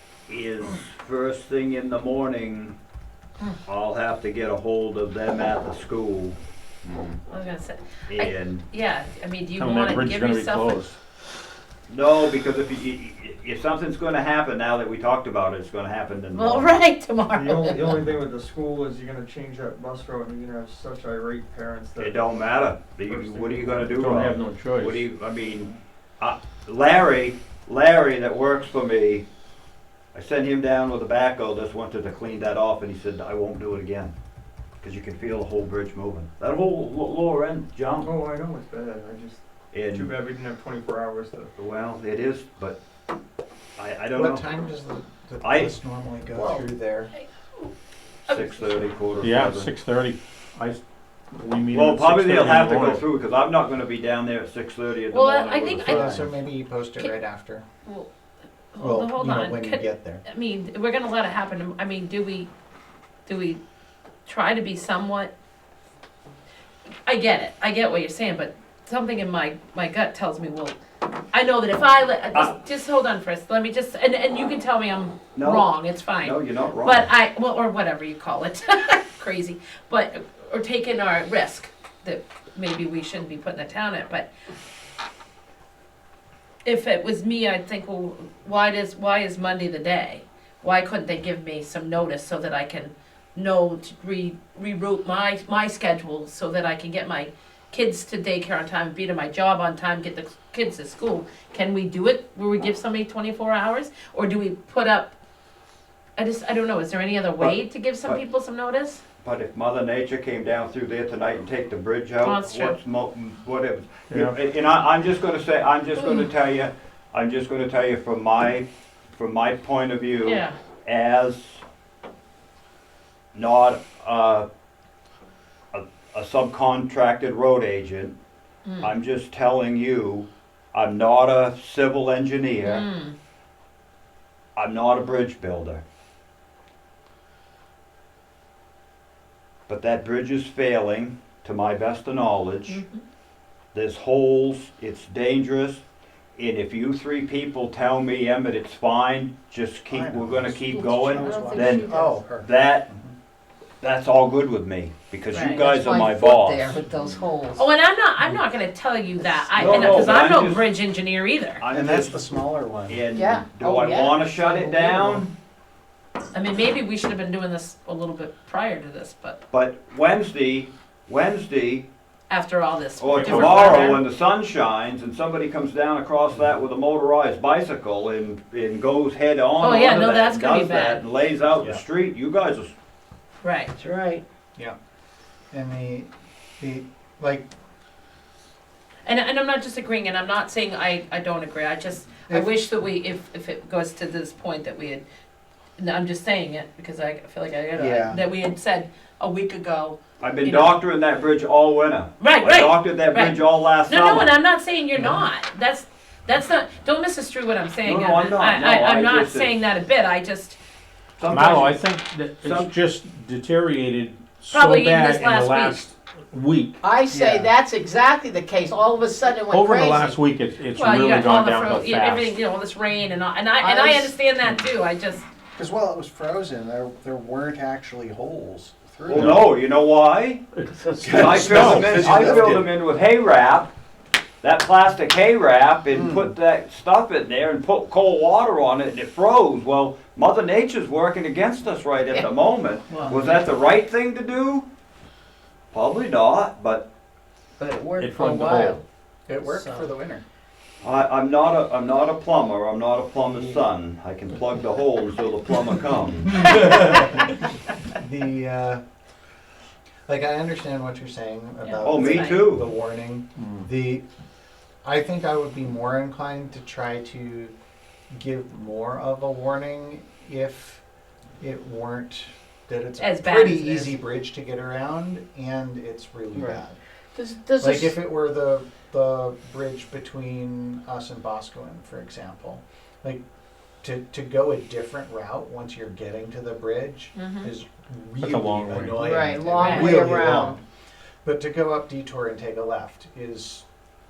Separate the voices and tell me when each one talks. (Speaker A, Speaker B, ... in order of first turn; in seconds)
Speaker A: 0.3-2.8, 3.6-7.2, 8.1-8.6, 11.9-16.7, 22.0-29.2, 30.1-34.1, 34.8-38.1, 39.7-40.1, 41.6-42.8, 43.8-44.5, 45.4-45.8, 48.3-49.7, 51.7-56.3, 75.3-75.7, 76.2-77.1, 107.4-108.2, 109.2-121.6, 123.3-124.5, 125.7-128.2, 128.8-132.9, 134.6-135.8, 139.7-142.8, 143.7-145.8, 146.4-152.9, 153.8-156.7, 159.5-160.6, 161.6-162.2, 162.9-165.3, 169.5-171.9, 173.0-182.7, 200.2-204.3, 207.8-209.5, 211.2-211.8, 212.4-212.7, 229.1-230.4, 231.1-233.7, 234.4-244.7, 245.7-246.9, 250.8-256.5, 261.8-262.7
Speaker B: 7.3-10.9, 16.3-17.9, 46.4-46.6, 47.1-47.7, 48.3-48.9, 55.1-56.3, 58.7-62.5, 63.2-63.6, 64.2-65.3, 67.0-70.8, 71.3-84.3, 86.6-105.1, 106.2-109.0, 112.2-112.8, 116.0-116.2, 120.2-120.5, 128.7-128.9, 132.6-133.1, 142.7-143.0, 155.3-155.7, 157.5-161.6, 166.3-169.4, 172.3-174.0, 179.6-181.0, 183.4-183.7, 189.0-195.0, 195.8-200.8, 202.2-210.6, 214.5-215.8, 220.7-225.2, 261.6-262.4, 273.0-274.0, 287.1-287.5, 289.2-290.0
Speaker C: 9.6-11.0, 23.9-25.1, 49.2-50.8, 51.3-53.0, 173.2-173.9, 211.2-216.8, 219.5-222.3, 230.6-232.6, 248.0-248.8, 263.4-263.6, 288.2-289.2
Speaker D: 17.3-22.4, 23.0-24.1, 38.0-41.5
Speaker E: 44.1-47.1, 55.8-57.6, 58.8-60.2, 149.9-153.1, 156.7-157.2, 161.7-163.1, 185.5-187.5, 197.8-198.2, 217.1-217.5, 225.5-229.4, 231.0-232.6, 235.9-236.3, 242.9-243.3, 249.3-250.2, 256.3-257.3, 257.9-258.8, 260.1-264.0, 264.8-267.5, 268.1-270.8, 271.4-276.8, 277.6-283.2, 283.8-290.6, 291.2-293.6
Speaker F: 151.2-152.2, 155.7-157.6, 163.1-165.2, 183.8-184.2, 216.8-220.2, 223.6-224.1, 247.6-248.8, 249.4-249.9, 276.3-276.6, 277.1-277.9, 288.9-290.6